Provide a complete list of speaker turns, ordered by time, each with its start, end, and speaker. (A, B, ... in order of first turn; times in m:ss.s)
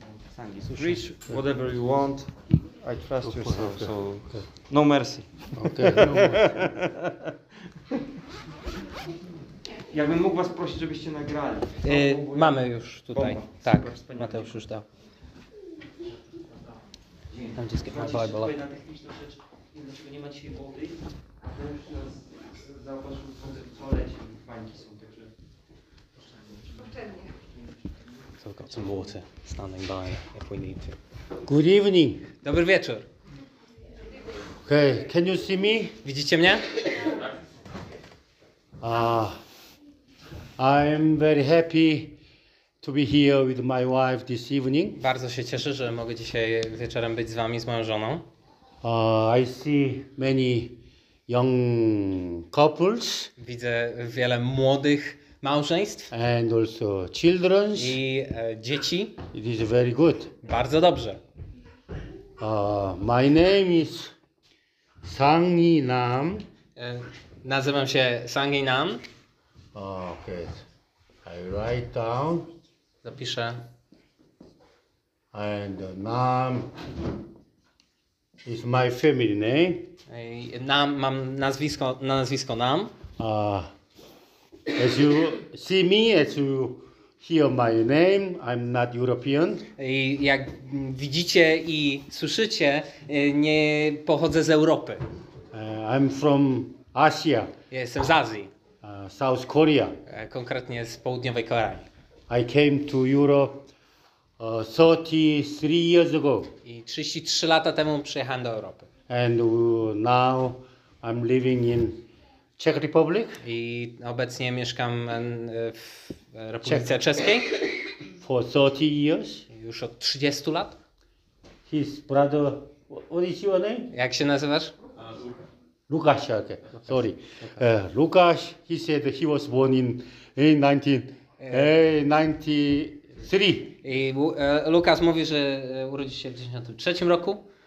0:00.1-0:06.8 A
0:03.2-0:04.4 B
0:05.6-0:06.9 B
0:09.9-0:14.5 A
0:11.8-0:14.9 C
0:17.3-0:25.3 A
0:17.6-0:18.5 C
0:26.2-0:26.9 A
0:28.4-0:31.0 C
0:31.4-0:32.3 B
0:32.4-0:33.1 C
0:34.6-0:36.0 B
0:36.0-0:36.7 C
0:38.8-0:39.4 B
0:40.6-0:42.2 B
0:42.8-0:45.0 B
0:45.0-0:48.3 C
0:48.8-0:53.3 B
0:53.4-0:56.1 C
0:56.1-0:58.0 B
0:57.8-0:59.2 C
0:59.3-1:00.3 B
1:00.4-1:01.2 C
1:02.4-1:04.1 B
1:05.0-1:06.5 B
1:06.8-1:09.0 C
1:09.7-1:10.6 B
1:11.2-1:12.5 B
1:13.0-1:13.6 C
1:15.3-1:16.8 B
1:18.4-1:19.9 B
1:20.1-1:22.9 C
1:23.2-1:23.7 B
1:24.7-1:29.7 B
1:29.8-1:35.0 C
1:35.5-1:37.5 B
1:37.7-1:38.5 C
1:38.8-1:40.0 B
1:40.1-1:41.9 C
1:42.3-1:43.7 B
1:44.4-1:46.5 B
1:46.6-1:48.9 C
1:49.1-1:52.1 B
1:52.6-1:53.4 B
1:53.4-1:57.5 C
1:58.2-1:59.4 B
1:59.5-2:00.8 C
2:01.7-2:03.9 B
2:03.9-2:04.8 C
2:05.9-2:13.8 B
2:11.4-2:11.8 C
2:13.8-2:17.4 C